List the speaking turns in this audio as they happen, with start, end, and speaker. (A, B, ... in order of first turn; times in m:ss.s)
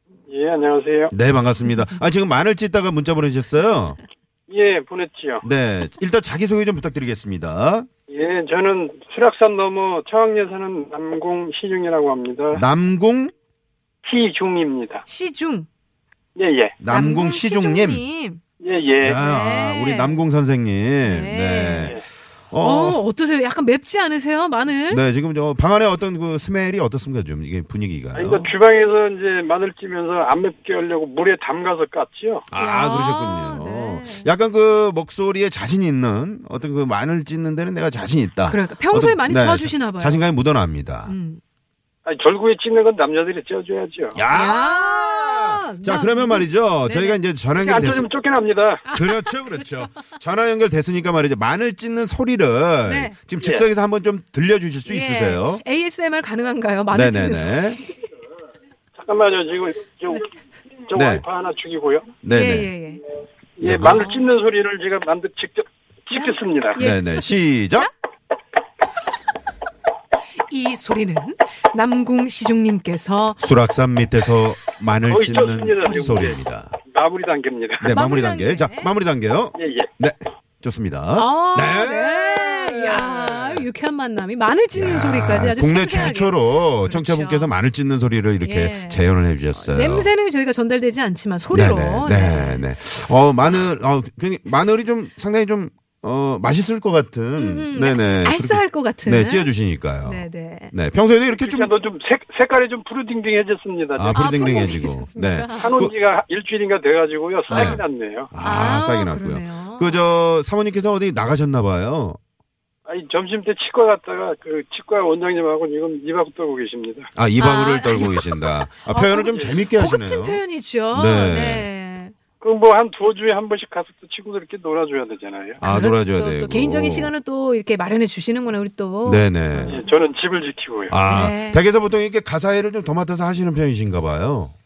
0:00.3-0:01.1 A
0:01.1-0:04.0 B
0:04.5-0:05.4 A
0:05.4-0:07.9 B
0:08.1-0:12.6 A
0:12.6-0:13.3 B
0:14.0-0:15.0 A
0:15.1-0:15.7 C
0:16.4-0:16.8 A
0:16.8-0:18.0 B
0:16.9-0:18.4 C
0:18.6-0:19.2 A
0:19.0-0:23.0 B
0:19.2-0:20.2 C
0:21.0-0:22.0 C
0:22.6-0:25.0 C
0:24.9-0:28.5 B
0:28.2-0:32.5 A
0:32.5-0:41.1 B
0:32.5-0:34.3 C
0:38.4-0:40.3 C
0:41.1-0:41.4 C
0:42.0-0:44.2 A
0:44.2-0:48.1 B
0:44.3-0:47.2 C
0:47.6-0:48.8 A
0:48.9-0:49.9 C
0:48.9-0:55.6 B
0:52.8-0:53.2 C
0:53.4-0:53.6 A
0:54.8-0:57.8 C
0:56.9-0:57.8 B
0:59.0-1:00.2 A
1:00.9-1:02.1 A
1:00.9-1:01.2 B
1:02.2-1:02.7 B
1:02.3-1:03.0 C
1:03.6-1:06.8 A
1:03.6-1:04.0 B
1:03.9-1:04.2 C
1:06.1-1:07.9 C
1:06.8-1:07.9 B
1:10.5-1:13.4 C
1:13.4-1:16.8 B
1:15.1-1:17.9 A
1:17.8-1:23.7 B
1:17.9-1:18.9 C
1:19.6-1:19.9 A
1:21.1-1:27.5 C
1:24.7-1:30.1 B
1:28.4-1:32.7 C
1:31.5-1:41.7 B
1:37.4-1:40.7 C
1:41.4-1:44.8 A
1:44.0-1:45.9 B
1:44.1-1:45.8 C
1:45.6-1:48.3 A
1:47.5-1:47.8 C
1:47.5-1:52.2 B
1:48.4-1:50.0 C
1:52.9-1:57.1 A
1:57.2-2:00.4 B
1:57.4-2:02.2 C
2:00.9-2:01.7 B
2:02.4-2:05.6 A
2:05.6-2:09.9 C
2:05.6-2:07.1 B
2:09.0-2:09.8 B
2:09.7-2:11.0 A
2:10.9-2:14.5 B
2:11.1-2:11.6 C